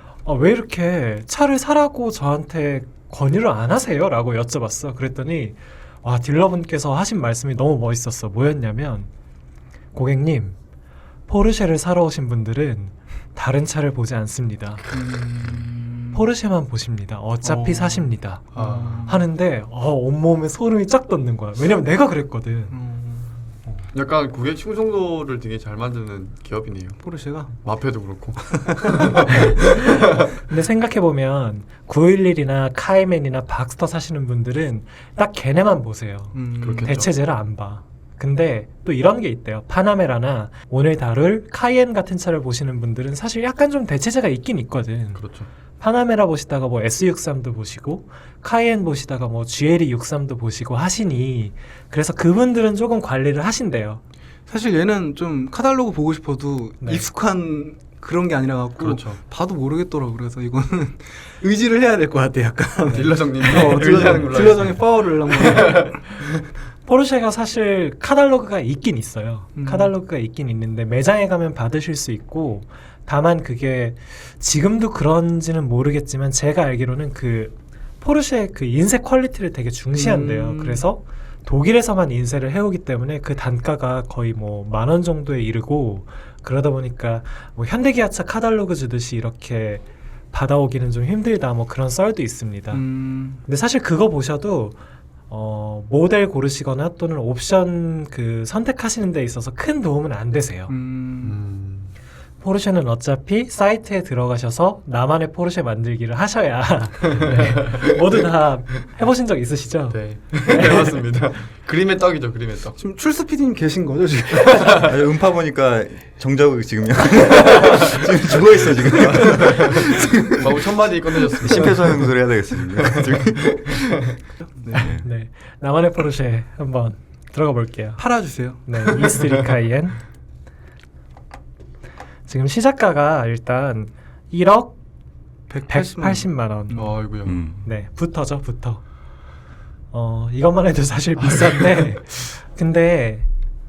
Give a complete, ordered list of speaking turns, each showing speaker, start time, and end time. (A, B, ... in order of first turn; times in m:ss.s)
0:00.2-0:09.1 A
0:09.9-0:10.6 A
0:11.3-0:14.8 A
0:14.9-0:16.3 B
0:16.1-0:18.5 A
0:17.4-0:19.3 B
0:18.5-0:19.1 C
0:19.1-0:22.8 A
0:22.7-0:23.6 B
0:23.9-0:27.0 C
0:27.0-0:27.5 B
0:27.5-0:29.8 C
0:29.5-0:45.2 A
0:36.3-0:37.0 B
0:36.6-0:37.1 C
0:45.2-0:45.5 C
0:45.8-0:54.0 A
0:54.5-1:06.0 B
0:56.8-0:57.1 A
0:58.8-0:59.2 C
1:02.9-1:05.8 C
1:06.8-1:32.8 A
1:09.6-1:09.9 B
1:19.9-1:20.8 B
1:32.7-1:33.4 B
1:33.4-1:34.8 A
1:35.3-1:40.7 A
1:40.7-1:41.4 B
1:41.2-1:41.9 C
1:42.4-1:51.0 A
1:47.2-1:48.0 C
1:49.9-1:52.8 C
1:52.8-1:54.9 B
1:54.7-2:00.3 D
1:59.1-1:59.6 C
2:00.4-2:02.1 C
2:01.4-2:03.3 D
2:02.8-2:04.0 C
2:04.4-2:04.9 B
2:04.8-2:05.1 D
2:04.8-2:10.0 A
2:08.0-2:09.0 B
2:12.3-2:14.8 A
2:15.5-2:16.9 B
2:15.7-2:16.9 A
2:16.7-2:17.4 C
2:17.3-2:17.7 D
2:17.6-2:18.8 A
2:19.9-2:23.3 A